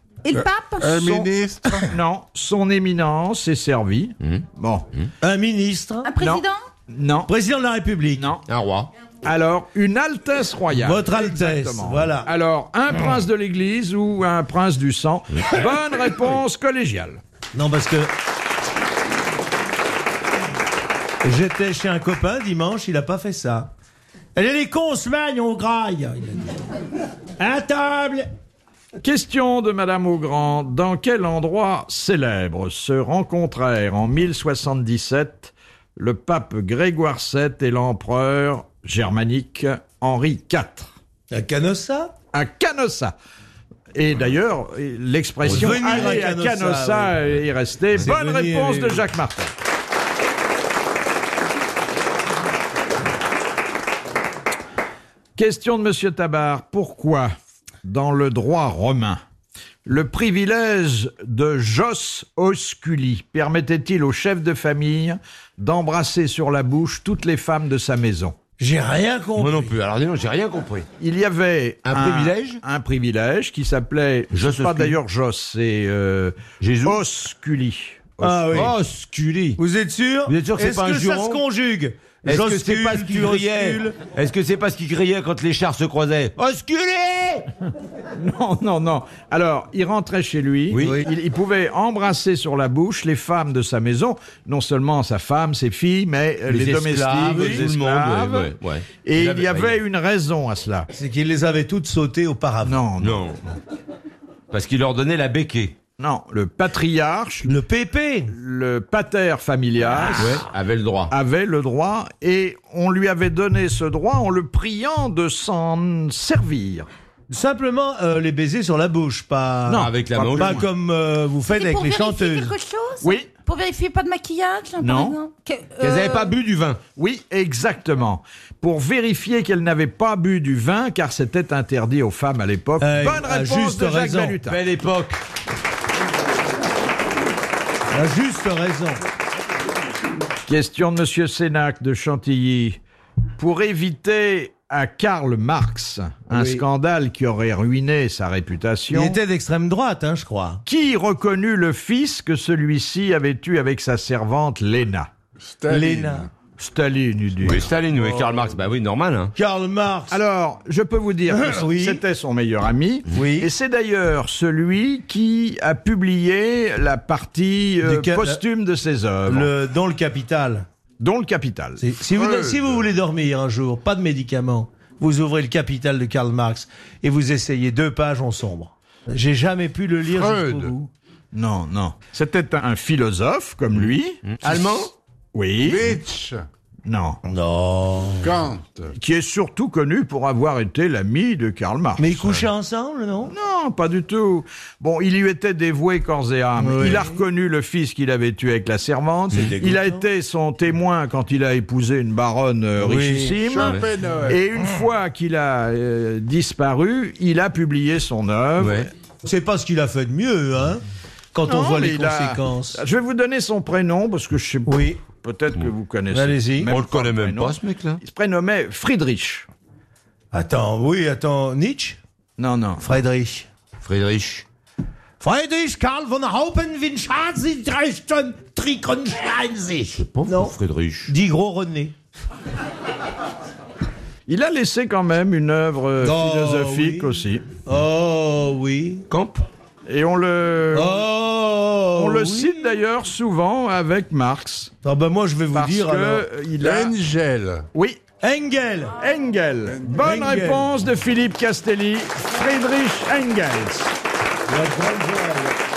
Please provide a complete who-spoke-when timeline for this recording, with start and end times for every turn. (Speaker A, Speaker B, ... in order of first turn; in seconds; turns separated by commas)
Speaker A: 0.2-1.0, Speaker B: 0.3-1.9, Speaker C: 0.9-1.3, Speaker C: 1.9-4.8, Speaker D: 5.2-6.1, Speaker A: 6.0-6.6, Speaker C: 6.2-7.3, Speaker D: 7.2-8.3, Speaker C: 8.2-8.4, Speaker E: 8.5-8.9, Speaker C: 9.2-17.2, Speaker D: 10.7-12.3, Speaker D: 17.5-18.1, Speaker D: 21.2-23.7, Speaker D: 24.3-26.7, Speaker D: 27.4-28.3, Speaker C: 29.0-40.9, Speaker D: 41.3-42.1, Speaker C: 42.3-43.1, Speaker C: 43.9-49.5, Speaker D: 45.4-47.2, Speaker E: 45.6-46.0, Speaker D: 47.9-49.1, Speaker C: 55.4-57.3, Speaker C: 57.8-59.2, Speaker C: 59.8-68.3, Speaker D: 68.6-69.7, Speaker E: 69.4-70.9, Speaker C: 71.0-78.5, Speaker E: 71.8-72.6, Speaker E: 74.3-75.0, Speaker E: 76.6-77.0, Speaker D: 78.2-78.7, Speaker E: 78.5-79.6, Speaker D: 79.6-84.0, Speaker E: 80.3-81.4, Speaker E: 82.2-87.5, Speaker C: 88.2-100.9, Speaker E: 90.7-91.0, Speaker D: 90.8-91.1, Speaker D: 96.5-97.7, Speaker E: 96.5-99.8, Speaker D: 100.9-102.8, Speaker C: 102.7-103.2, Speaker E: 103.0-103.4, Speaker E: 104.5-105.8, Speaker C: 106.0-107.5, Speaker D: 107.5-108.3, Speaker C: 108.3-110.4, Speaker E: 110.2-111.1, Speaker C: 111.1-116.9, Speaker D: 117.3-122.5, Speaker C: 119.7-120.6, Speaker E: 119.8-120.6, Speaker A: 121.5-126.3, Speaker C: 123.0-123.3, Speaker C: 124.8-125.2, Speaker E: 125.8-126.8, Speaker C: 127.0-134.6, Speaker D: 132.8-134.4, Speaker E: 134.4-135.2, Speaker D: 137.9-139.0, Speaker C: 140.5-142.8, Speaker C: 143.4-149.2, Speaker D: 146.3-146.6, Speaker D: 148.9-150.6, Speaker C: 150.7-155.1, Speaker B: 155.4-156.3, Speaker D: 155.7-156.3, Speaker C: 156.6-157.7, Speaker E: 157.4-159.3, Speaker D: 159.3-160.2, Speaker C: 160.1-169.5, Speaker D: 161.3-162.0, Speaker D: 163.1-163.5, Speaker D: 167.8-168.4, Speaker D: 169.3-170.7, Speaker C: 171.0-171.8, Speaker D: 171.8-180.9, Speaker B: 172.1-172.8, Speaker B: 180.2-180.7, Speaker C: 181.3-184.2, Speaker E: 184.2-184.9, Speaker C: 185.3-186.0, Speaker B: 185.6-186.4, Speaker C: 186.8-187.2, Speaker D: 187.2-188.3, Speaker B: 188.2-188.9, Speaker C: 189.0-192.4, Speaker D: 192.0-193.3, Speaker C: 193.3-208.9, Speaker D: 196.6-197.2, Speaker D: 199.3-200.0, Speaker D: 202.8-203.3, Speaker B: 203.3-204.4, Speaker E: 208.6-208.9, Speaker D: 209.2-210.8, Speaker D: 211.3-212.8, Speaker C: 211.4-219.5, Speaker D: 214.7-215.0, Speaker D: 216.1-216.7, Speaker E: 216.7-218.0, Speaker D: 220.3-222.0, Speaker C: 222.4-222.8, Speaker D: 222.8-223.5, Speaker E: 223.8-224.4, Speaker D: 225.2-231.9, Speaker E: 230.0-231.1, Speaker C: 234.3-237.4, Speaker D: 236.0-239.0, Speaker E: 239.1-239.4, Speaker C: 239.9-241.0, Speaker D: 240.7-242.6, Speaker C: 241.9-244.7, Speaker D: 244.8-246.2, Speaker C: 245.5-246.9, Speaker B: 246.6-247.7, Speaker C: 247.7-248.0, Speaker D: 248.2-249.0, Speaker C: 249.0-253.9, Speaker B: 249.7-250.0, Speaker D: 250.0-250.7, Speaker D: 254.5-255.6